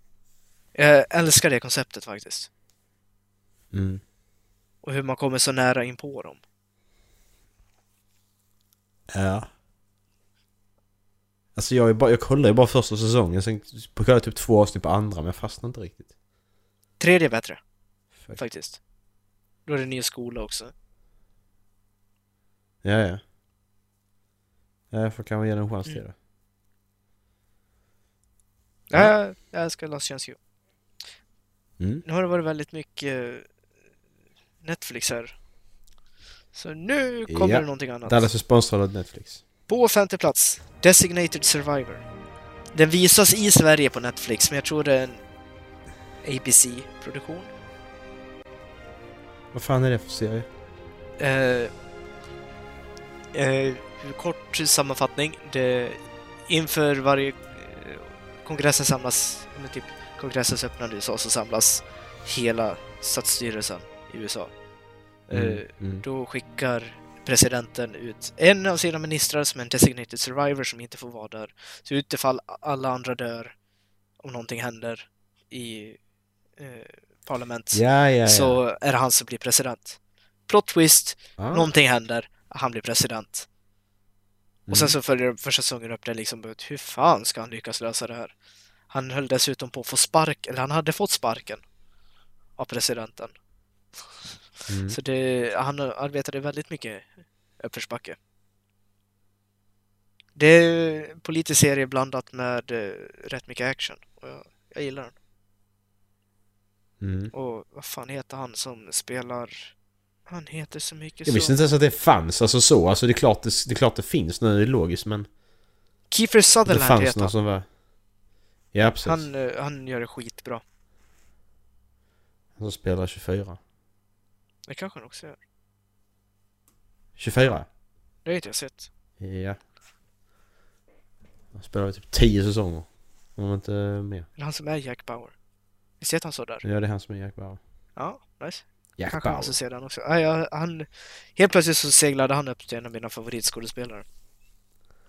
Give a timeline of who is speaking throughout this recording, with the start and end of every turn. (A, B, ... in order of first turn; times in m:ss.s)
0:00.8-0:02.5 A
0:03.7-0:04.0 B
0:04.8-0:06.4 A
0:09.1-0:09.5 B
0:11.6-0:16.1 B
0:17.0-0:17.6 A
0:18.4-0:18.8 A
0:19.7-0:20.7 A
0:22.8-0:23.2 B
0:24.9-0:26.1 B
0:28.9-0:30.4 A
0:31.8-0:32.0 B
0:32.0-0:33.5 A
0:34.6-0:35.3 A
0:36.5-0:38.3 A
0:37.3-0:39.4 B
0:39.7-0:42.0 A
0:42.7-0:45.2 A
0:46.2-0:47.5 A
0:49.5-0:50.5 B
0:51.2-0:51.7 A
0:53.3-1:04.5 A
1:05.3-1:13.5 A
1:05.3-1:06.0 B
1:14.2-1:16.0 A
1:16.6-1:23.5 A
1:17.7-1:18.6 B
1:21.4-1:21.7 B
1:24.7-1:25.0 B
1:24.7-1:28.3 A
1:28.9-1:31.6 A
1:32.6-1:33.3 A
1:34.7-1:35.0 B
1:34.9-1:38.2 A
1:40.4-1:45.1 A
1:47.0-1:47.3 B
1:47.3-1:49.7 A
1:50.3-1:51.6 A
1:51.2-1:55.3 B
1:56.1-1:57.3 A
1:56.7-1:57.7 B
1:58.7-1:59.3 B
1:59.0-2:00.6 A
2:02.6-2:03.6 B
2:04.7-2:05.4 A
2:07.2-2:07.7 B
2:08.2-2:08.9 A
2:09.2-2:09.6 B
2:11.5-2:14.3 B
2:14.4-2:15.3 A
2:16.0-2:16.6 A
2:16.6-2:17.6 B
2:18.0-2:24.0 A
2:19.0-2:19.6 B